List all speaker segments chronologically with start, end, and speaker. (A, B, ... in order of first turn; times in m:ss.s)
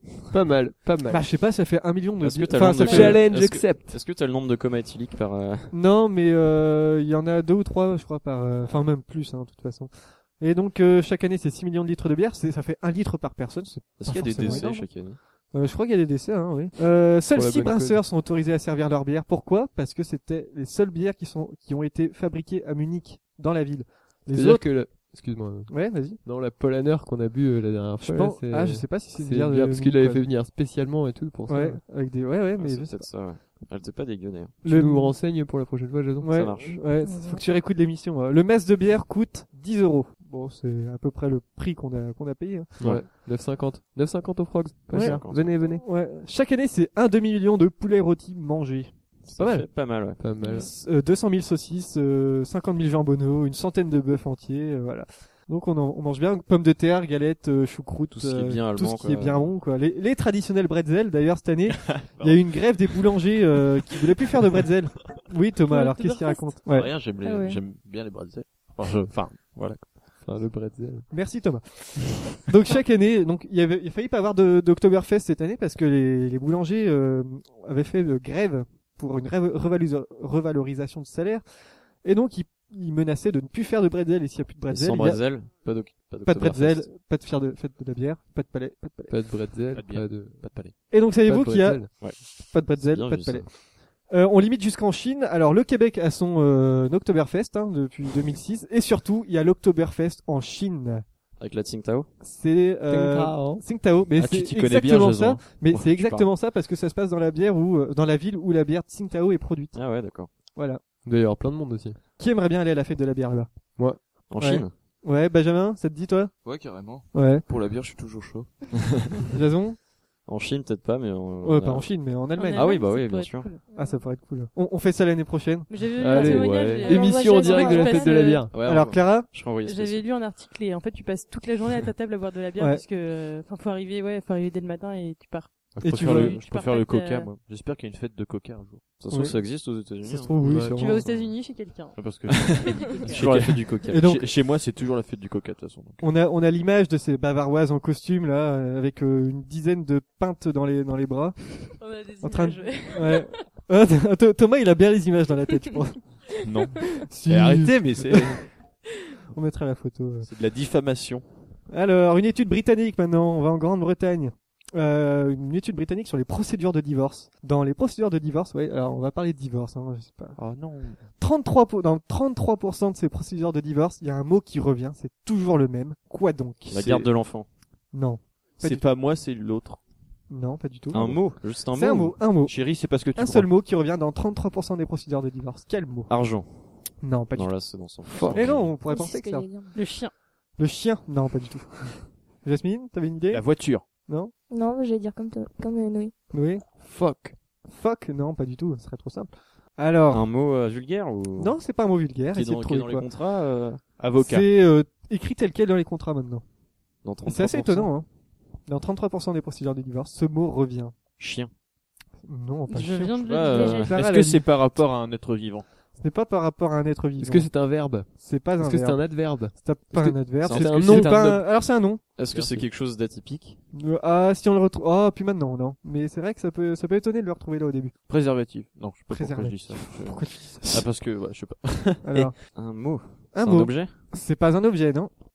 0:00.3-0:01.3 A
0:01.1-0:03.3 B
0:02.2-0:05.8 C
0:02.6-0:04.0 A
0:05.7-0:25.0 B
0:14.0-0:15.2 C
0:17.3-0:18.0 A
0:24.3-0:31.8 A
0:25.7-0:26.2 B
0:28.0-0:30.3 B
0:31.5-0:33.1 B
0:32.6-0:34.6 C
0:34.6-0:35.3 B
0:34.6-0:36.4 A
0:36.2-0:43.1 B
0:36.3-0:36.8 C
0:37.0-0:37.4 D
0:42.8-0:45.8 A
0:44.9-0:49.7 B
0:44.9-0:45.6 C
0:49.2-0:50.2 C
0:50.2-0:50.7 A
0:50.4-1:06.9 B
0:50.4-0:50.7 D
0:58.1-0:59.5 C
1:01.9-1:02.4 E
1:05.7-1:06.6 D
1:06.7-1:10.2 E
1:07.2-1:07.6 D
1:10.2-1:11.1 A
1:11.1-1:21.4 B
1:22.0-1:25.2 B
1:24.7-1:26.9 C
1:26.2-1:29.2 B
1:29.1-1:30.6 A
1:29.7-1:30.7 E
1:30.9-1:33.6 B
1:31.2-1:32.0 A
1:32.0-1:33.5 C
1:34.1-1:41.0 B
1:41.4-1:42.1 C
1:42.2-1:49.8 B
1:42.9-1:43.6 A
1:44.2-1:45.5 E
1:45.9-1:46.3 C
1:49.7-1:50.3 C
1:50.6-1:50.8 B
1:51.0-1:52.0 A
1:52.2-1:53.5 B
1:54.3-1:54.7 C
1:54.4-1:56.3 B
1:56.4-1:58.7 F
1:57.1-1:57.4 B
1:59.3-1:59.8 B
2:00.3-2:01.9 C
2:01.4-2:02.8 B
2:02.4-2:03.6 D
2:02.5-2:03.5 C
2:03.7-2:04.0 G
2:03.7-2:05.7 B
2:05.7-2:08.5 D
2:06.0-2:08.6 A
2:06.2-2:08.4 G
2:08.5-2:10.0 C
2:08.6-2:09.3 B
2:09.6-2:17.3 D
2:12.6-2:12.8 B
2:15.7-2:18.8 E
2:15.8-2:16.4 B
2:19.0-2:20.4 C
2:19.1-2:21.1 B
2:20.4-2:20.8 A
2:20.8-2:22.1 D
2:22.0-2:26.0 E
2:22.6-2:23.3 D
2:22.9-2:24.2 C
2:23.2-2:24.3 B
2:26.0-2:36.4 B
2:31.8-2:33.4 D
2:36.4-2:38.5 E
2:37.0-2:38.4 B
2:39.3-2:40.3 B
2:40.2-2:41.3 E
2:41.7-2:50.4 B
2:50.4-2:51.0 E
2:51.2-2:56.9 B
2:56.7-2:57.5 C
2:56.7-2:57.1 E
2:57.9-2:58.8 B
2:58.6-2:59.8 E
3:00.3-3:06.1 B
3:00.9-3:02.3 C
3:02.4-3:03.5 E
3:06.1-3:06.8 C
3:07.0-3:07.7 B
3:07.3-3:08.7 C
3:08.1-3:08.4 A
3:08.3-3:09.5 B
3:08.9-3:09.8 G
3:09.8-3:10.1 D
3:10.6-3:14.3 B
3:13.3-3:13.9 E
3:14.5-3:16.1 G
3:16.3-3:16.6 B
3:17.0-3:17.3 E
3:17.6-3:20.3 B
3:20.1-3:21.6 C
3:21.4-3:23.1 B
3:22.3-3:23.9 C
3:24.0-3:24.5 E
3:24.2-3:26.4 B
3:27.0-3:27.9 C
3:27.2-3:28.1 B
3:28.7-3:30.9 B
3:31.2-3:31.5 C
3:32.2-3:34.5 B
3:32.7-3:33.9 D
3:33.2-3:34.0 C
3:33.3-3:35.7 E
3:36.0-3:37.5 B
3:37.2-3:41.5 A
3:38.2-3:42.0 B
3:40.4-3:41.4 C
3:42.2-3:43.6 C
3:42.3-3:42.6 E
3:43.7-3:47.9 B
3:48.1-3:52.3 E
3:49.1-3:50.9 B
3:52.0-3:52.4 B
3:52.5-3:54.0 C
3:53.3-3:55.1 B